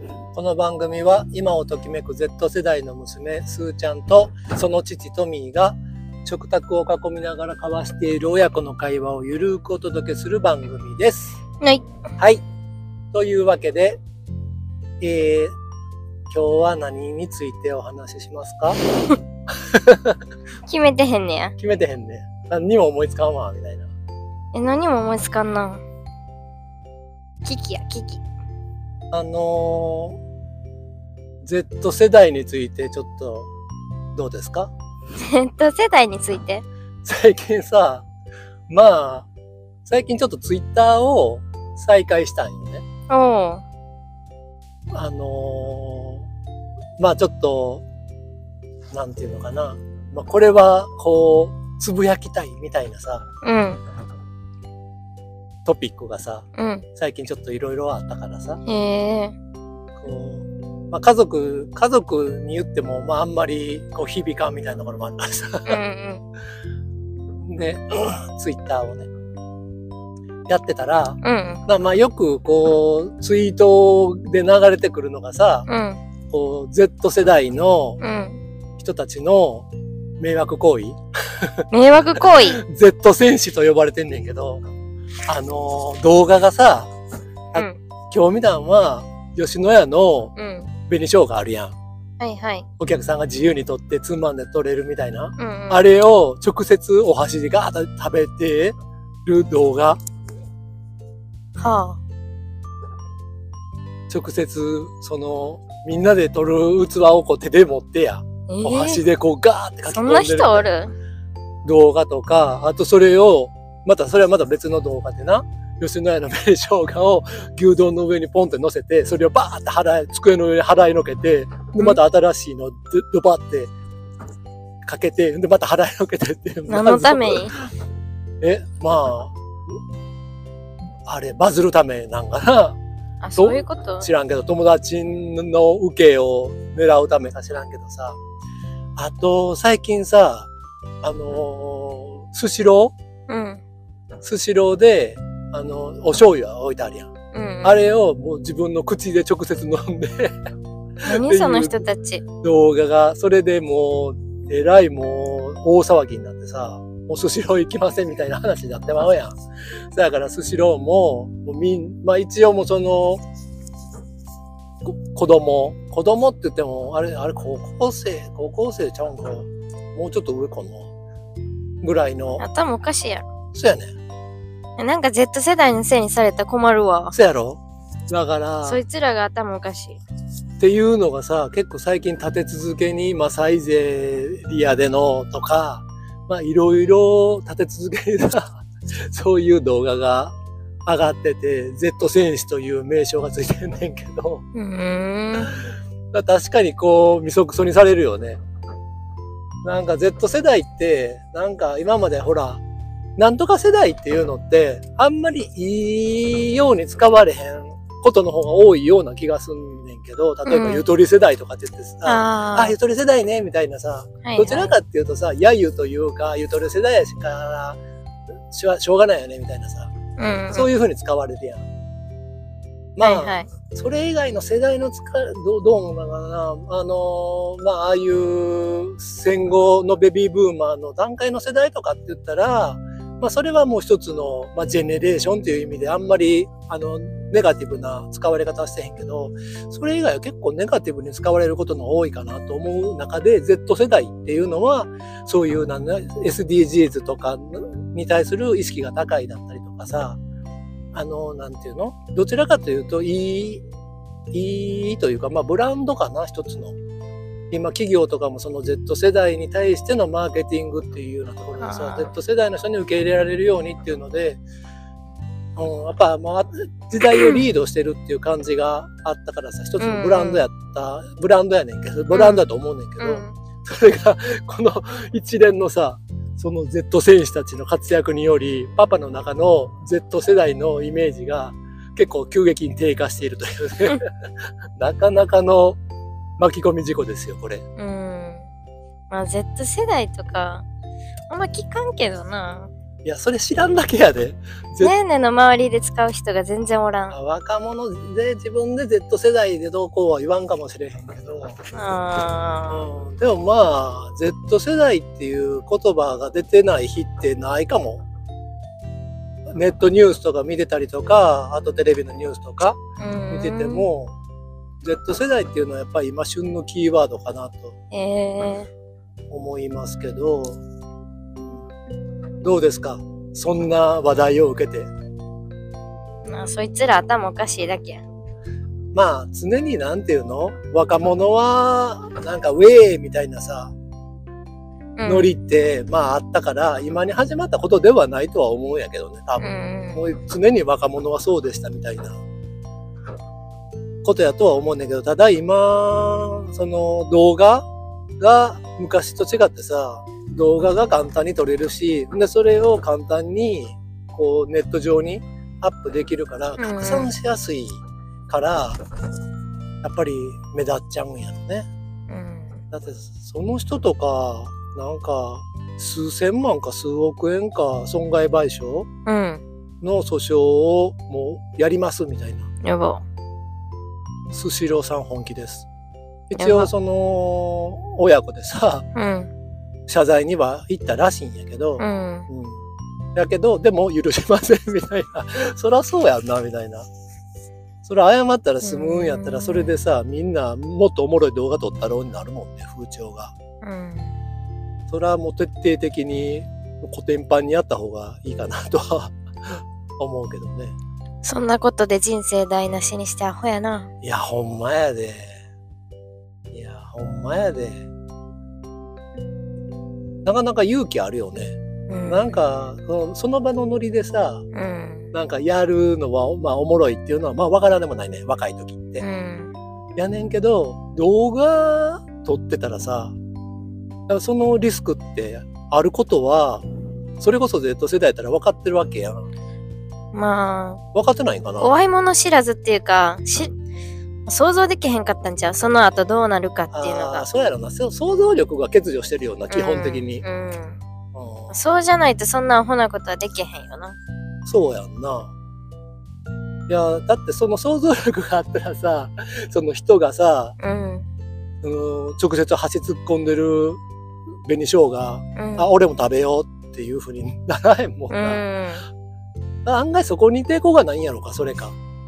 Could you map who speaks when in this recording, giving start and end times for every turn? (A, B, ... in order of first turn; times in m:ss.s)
0:00.3-0:11.4 A
0:13.1-0:14.0 A
0:15.0-0:15.5 A
0:16.3-0:18.8 A
0:19.7-0:20.2 A
0:20.7-0:21.5 B
0:21.6-0:23.9 A
0:24.5-0:25.8 B
0:27.4-0:28.2 B
0:29.1-0:30.2 A
0:31.4-0:33.5 A
0:34.1-0:34.7 A
0:35.2-0:36.6 B
0:37.0-0:38.0 A
0:38.7-0:39.3 A
0:39.8-0:42.8 A
0:43.1-0:43.6 B
0:44.9-0:46.3 A
0:47.0-0:47.8 A
0:48.9-0:53.2 A
0:53.4-0:53.8 B
0:55.6-0:58.6 A
0:56.6-0:56.8 B
0:58.6-0:59.3 B
1:00.0-1:05.8 A
1:05.7-1:06.2 B
1:07.4-1:09.1 A
1:10.5-1:15.7 A
1:11.2-1:11.6 B
1:15.7-1:16.0 B
1:16.3-1:18.0 A
1:18.0-1:18.4 B
1:18.8-1:19.7 A
1:20.2-1:21.0 A
1:21.7-1:22.6 B
1:22.1-1:24.6 A
1:25.3-1:26.9 A
1:27.5-1:30.3 A
1:30.4-1:30.7 B
1:30.8-1:31.7 A
1:32.2-1:32.6 B
1:32.8-1:40.0 A
1:35.4-1:35.8 B
1:41.6-1:42.0 B
1:44.1-1:50.7 A
1:48.5-1:49.0 B
1:49.9-1:50.9 B
1:51.6-2:03.7 A
2:04.8-2:07.7 A
2:06.7-2:07.5 B
2:08.4-2:09.3 A
2:11.1-2:12.8 A
2:13.2-2:14.1 B
2:13.4-2:18.2 A
2:19.0-2:20.5 A
2:21.0-2:22.9 A
2:23.3-2:23.6 B
2:24.2-2:27.1 A
2:27.3-2:27.8 B
2:27.6-2:30.3 A
2:31.0-2:31.8 A
2:31.0-2:32.2 B
2:32.4-2:39.4 A
2:39.9-2:43.2 A
2:44.8-2:50.9 A
2:51.8-2:52.4 A
2:52.4-2:53.2 B
2:53.5-2:53.9 A
2:54.8-2:57.1 B
2:57.1-2:58.8 A
2:58.6-3:00.0 B
3:00.6-3:14.4 A
3:14.5-3:15.5 B
3:15.3-3:18.4 A
3:19.6-3:22.6 A
3:23.2-3:37.8 A
3:30.4-3:30.8 B
3:32.0-3:32.8 B
3:34.2-3:34.7 B
3:38.5-3:39.9 A
3:40.2-3:40.7 B
3:40.5-3:41.6 A
3:43.0-4:10.2 A
3:43.0-3:43.5 B
4:10.9-4:13.6 A
4:14.3-4:16.8 A
4:17.5-4:24.4 A
4:21.6-4:22.1 B
4:25.6-4:44.1 A
4:27.1-4:27.4 B
4:29.8-4:30.4 B
4:32.1-4:32.4 B
4:33.0-4:33.3 B
4:44.8-4:45.8 A
4:46.4-4:47.6 A
4:47.8-4:48.4 B
4:49.1-4:50.6 B
4:51.3-4:52.7 B
4:53.0-4:54.9 A
4:54.8-4:57.1 B
4:57.1-5:01.6 A
5:01.7-5:02.8 B
5:02.7-5:08.0 A
5:09.5-5:12.8 A
5:13.0-5:13.9 B
5:13.3-5:14.1 A
5:14.8-5:17.7 A
5:17.9-5:18.7 B
5:19.3-5:20.6 A
5:22.4-5:24.9 A
5:26.2-5:28.0 B
5:28.9-5:33.7 A
5:35.0-5:35.3 B
5:35.0-5:42.2 A
5:39.4-5:40.0 B
5:44.0-5:47.6 A
5:48.2-5:58.8 A
5:56.6-5:57.1 B
5:59.8-6:01.7 A
6:02.1-6:02.6 B
6:02.7-6:08.9 A
6:09.0-6:09.4 B
6:09.8-6:12.5 A
6:12.6-6:13.0 B
6:14.3-6:15.7 A
6:16.3-6:18.9 A
6:16.4-6:16.7 B
6:18.9-6:19.3 B
6:19.9-6:22.6 A
6:21.8-6:22.3 B
6:23.1-6:26.9 A
6:27.8-6:33.3 A
6:28.6-6:29.8 B
6:33.6-6:34.1 B
6:34.9-6:40.7 A
6:41.2-6:43.9 B
6:44.0-6:45.3 A
6:46.5-6:47.8 A
6:50.2-6:54.4 A
6:51.9-6:52.3 B
6:54.5-6:55.1 B
6:55.1-6:59.0 A
6:59.0-6:59.5 B
7:00.0-7:03.1 A
7:04.1-7:06.6 A
7:07.2-7:09.2 A
7:10.1-7:10.8 B
7:10.9-7:11.7 A
7:11.6-7:13.5 B
7:14.3-7:17.2 B
7:16.7-7:20.2 A
7:19.5-7:20.8 B
7:21.1-7:21.5 A
7:21.5-7:24.0 B
7:24.4-7:25.3 A
7:26.7-7:30.6 A
7:30.6-7:31.0 B
7:31.6-7:33.8 A
7:34.5-7:38.4 A
7:35.4-7:35.7 B
7:38.1-7:38.8 B
7:39.6-7:41.7 A